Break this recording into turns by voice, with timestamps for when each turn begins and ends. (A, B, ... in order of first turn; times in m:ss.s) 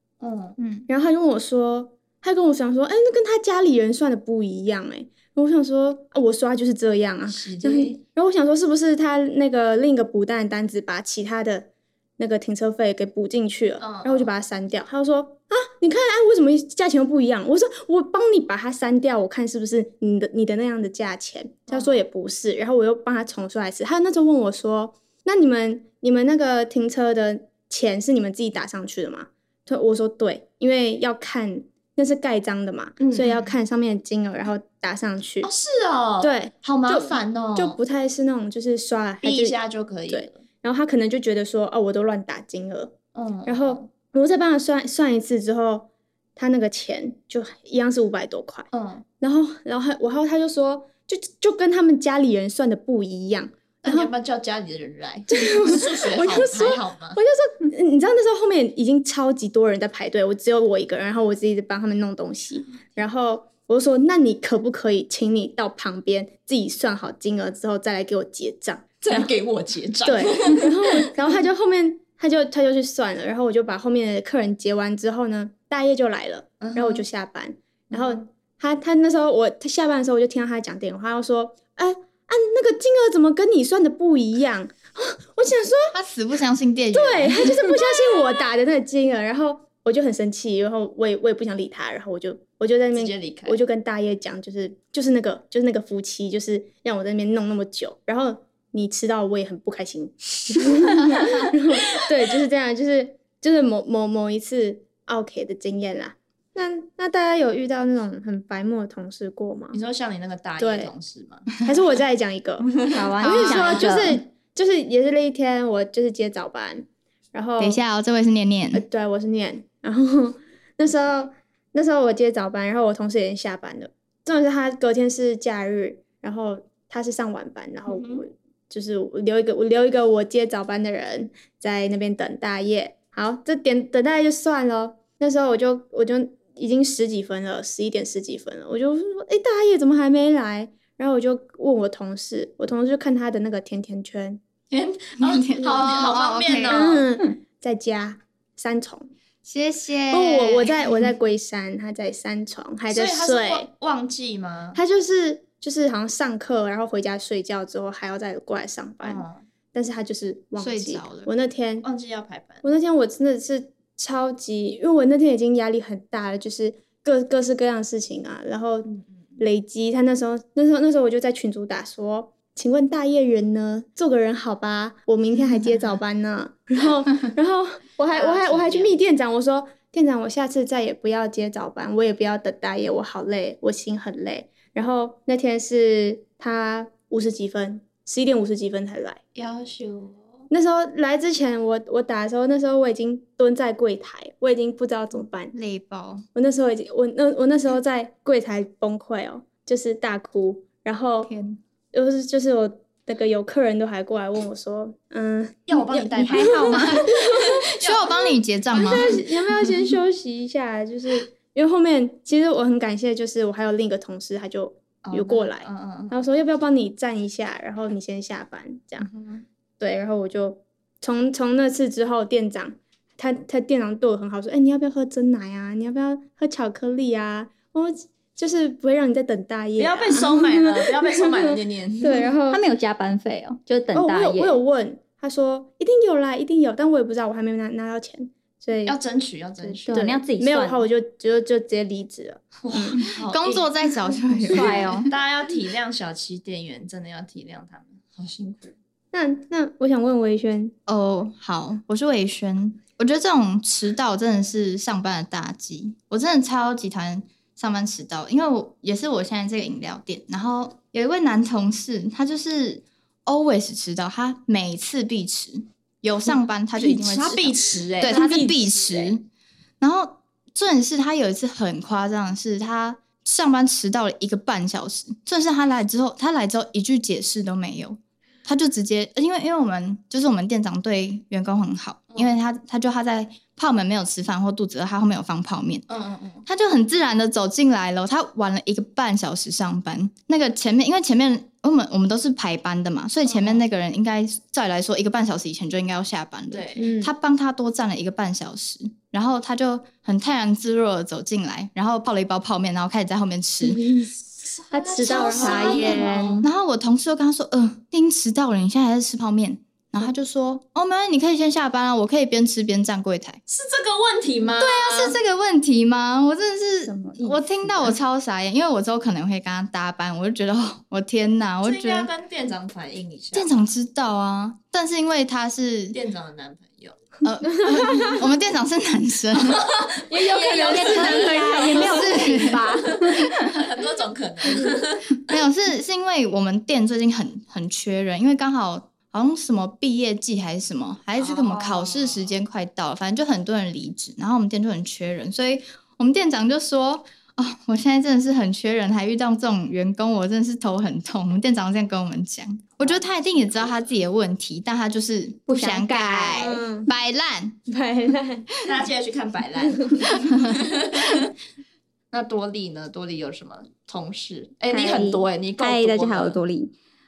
0:00.2-0:00.6 A
0:00.6-0:00.8 B
0:00.9-0:35.5 C
0:07.3-0:08.0 A
0:13.8-0:14.3 A
0:21.7-0:22.0 A
0:33.0-0:33.5 A
0:35.4-0:37.8 A
0:36.2-0:39.6 C
0:39.2-0:40.4 A
0:40.1-0:48.7 C
0:43.1-0:43.9 A
0:48.7-0:49.0 A
0:49.2-0:54.1 C
0:53.8-0:57.2 A
0:55.3-1:09.3 C
1:09.0-1:11.1 A
1:10.0-1:25.9 C
1:16.6-1:17.0 A
1:17.9-1:18.2 A
1:25.9-1:27.8 B
1:26.9-1:49.8 C
1:32.9-1:33.6 A
1:49.7-1:51.6 A
1:50.6-1:50.9 C
1:51.6-1:57.8 C
1:52.6-1:53.1 A
1:52.9-1:54.2 D
1:53.2-1:53.9 B
1:57.6-1:58.8 B
1:58.7-2:24.4 C
2:07.9-2:08.2 A
2:24.7-2:27.0 A
2:25.2-2:26.8 B
2:26.6-2:29.1 C
2:29.4-2:31.1 B
2:30.1-2:33.7 C
2:32.9-2:34.8 A
2:34.7-2:41.9 C
2:39.0-2:39.4 A
2:40.6-2:41.3 B
2:41.8-2:42.7 A
2:42.6-3:09.2 C
2:48.8-2:49.2 A
2:58.1-2:59.0 A
3:09.3-3:10.4 A
3:10.5-3:15.5 C
3:15.5-3:16.2 B
3:16.3-3:21.3 C
3:21.2-3:21.6 B
3:21.9-3:28.1 C
3:25.7-3:29.2 A
3:26.2-3:27.0 D
3:26.7-3:29.1 B
3:28.7-3:39.1 C
3:35.0-3:36.2 A
3:39.0-3:39.4 A
3:39.8-3:52.6 C
3:49.8-3:52.4 A
3:52.5-3:54.6 D
3:53.9-3:59.0 C
3:58.8-4:00.0 A
3:59.6-4:03.0 C
3:59.9-4:00.8 D
4:02.6-4:03.7 A
4:03.0-4:05.1 B
4:04.4-4:08.7 A
4:04.5-4:05.1 D
4:09.1-4:10.7 C
4:10.8-4:29.2 B
4:26.7-4:28.4 A
4:28.0-4:29.1 C
4:29.8-4:45.9 B
4:45.9-4:46.4 A
4:46.4-5:03.9 B
4:53.2-4:53.6 A
4:56.5-4:56.9 A
4:56.8-4:57.1 C
5:03.6-5:04.2 C
5:04.5-5:06.5 A
5:04.7-5:06.4 C
5:05.0-5:13.4 B
5:05.4-5:06.3 D
5:13.5-5:15.2 A
5:14.6-5:22.1 B
5:16.8-5:17.9 D
5:21.6-5:23.7 A
5:23.3-5:26.0 B
5:25.9-5:27.0 A
5:27.2-5:29.8 B
5:29.4-5:35.4 A
5:30.1-5:31.7 C
5:30.1-5:33.5 D
5:31.7-5:33.6 B
5:35.2-5:57.6 B
5:41.2-5:42.4 A
5:55.5-5:56.4 D
5:56.3-5:56.9 C
5:57.7-5:58.5 C
5:58.6-6:01.3 A
5:59.7-6:00.0 C
6:00.1-6:01.3 B
6:02.1-6:06.4 A
6:04.7-6:06.7 D